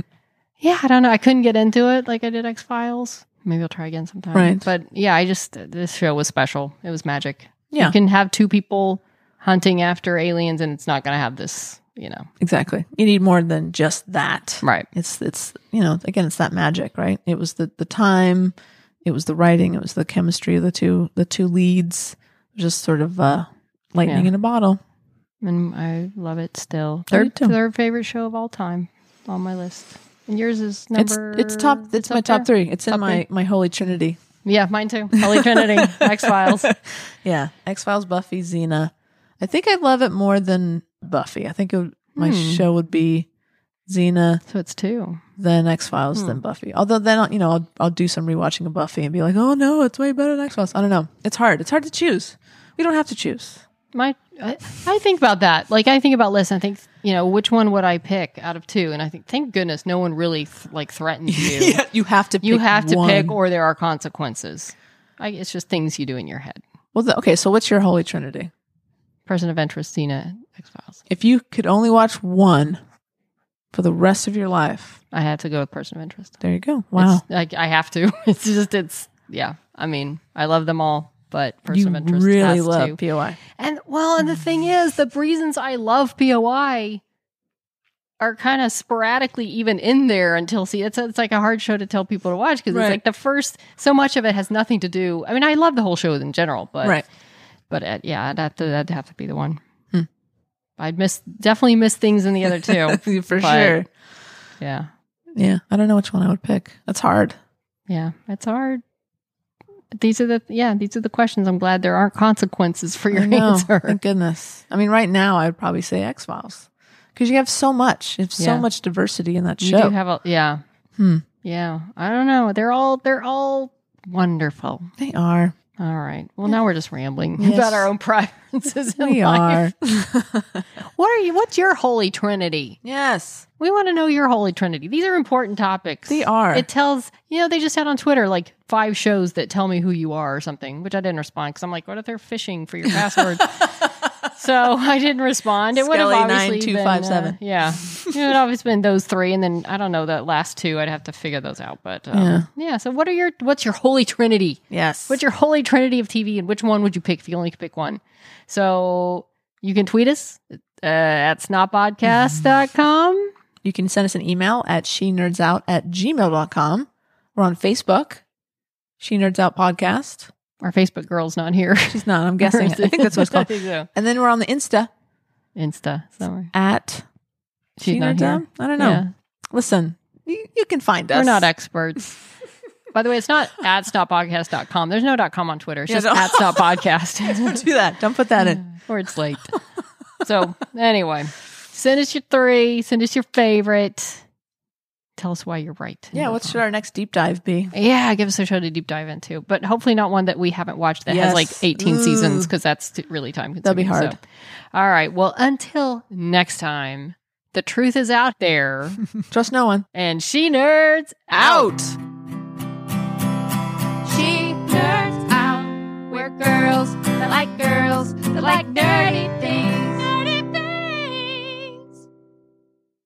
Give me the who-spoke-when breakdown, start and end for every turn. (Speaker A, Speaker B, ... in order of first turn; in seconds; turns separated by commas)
Speaker A: 0.6-12.3, Speaker B: 4.3-4.7, Speaker B: 12.4-24.8, Speaker A: 24.1-24.3, Speaker A: 25.4-33.2, Speaker B: 27.1-27.6, Speaker B: 31.0-34.2, Speaker A: 34.5-36.7, Speaker B: 35.2-43.3, Speaker A: 42.1-42.6, Speaker B: 43.9-44.4, Speaker A: 44.5-45.2, Speaker B: 45.4-53.6, Speaker A: 46.1-46.4, Speaker A: 53.9-61.8, Speaker B: 61.3-63.4, Speaker A: 62.4-66.6, Speaker B: 67.0-68.5, Speaker A: 69.3-71.0, Speaker B: 71.1-72.8, Speaker B: 73.7-75.0, Speaker A: 75.1-76.4, Speaker B: 76.4-77.2, Speaker A: 77.0-87.0, Speaker B: 81.7-83.4, Speaker A: 88.2-97.0, Speaker B: 92.7-93.0, Speaker A: 97.7-99.6, Speaker A: 100.8-103.8, Speaker B: 102.7-103.9, Speaker A: 104.6-104.9, Speaker B: 105.3-107.4, Speaker A: 107.9-108.8, Speaker A: 109.9-114.0, Speaker B: 113.1-120.0, Speaker A: 118.4-118.7, Speaker A: 119.6-120.6, Speaker B: 121.0-121.2, Speaker A: 121.4-124.9, Speaker B: 125.0-125.5, Speaker A: 125.8-129.7, Speaker B: 127.4-127.9, Speaker B: 129.0-130.6, Speaker A: 130.9-132.8, Speaker B: 132.8-133.5, Speaker A: 133.6-163.3, Speaker B: 136.1-136.7, Speaker B: 145.7-148.1, Speaker B: 152.1-152.5, Speaker B: 154.7-155.2, Speaker B: 163.6-168.2, Speaker B: 169.0-170.3, Speaker A: 170.6-173.9, Speaker B: 171.9-174.9, Speaker A: 175.6-176.5, Speaker B: 176.5-177.1, Speaker A: 177.8-179.1, Speaker B: 177.8-181.5, Speaker A: 181.1-182.2, Speaker A: 182.9-187.7, Speaker B: 185.9-188.7, Speaker A: 188.4-189.6, Speaker A: 190.2-194.2, Speaker A: 195.2-196.6, Speaker B: 196.1-197.7, Speaker A: 197.7-204.2, Speaker B: 201.1-202.5, Speaker B: 203.6-204.2, Speaker A: 204.7-209.0, Speaker B: 209.3-209.9, Speaker A: 209.9-211.7, Speaker B: 211.3-212.0, Speaker C: 214.0-221.8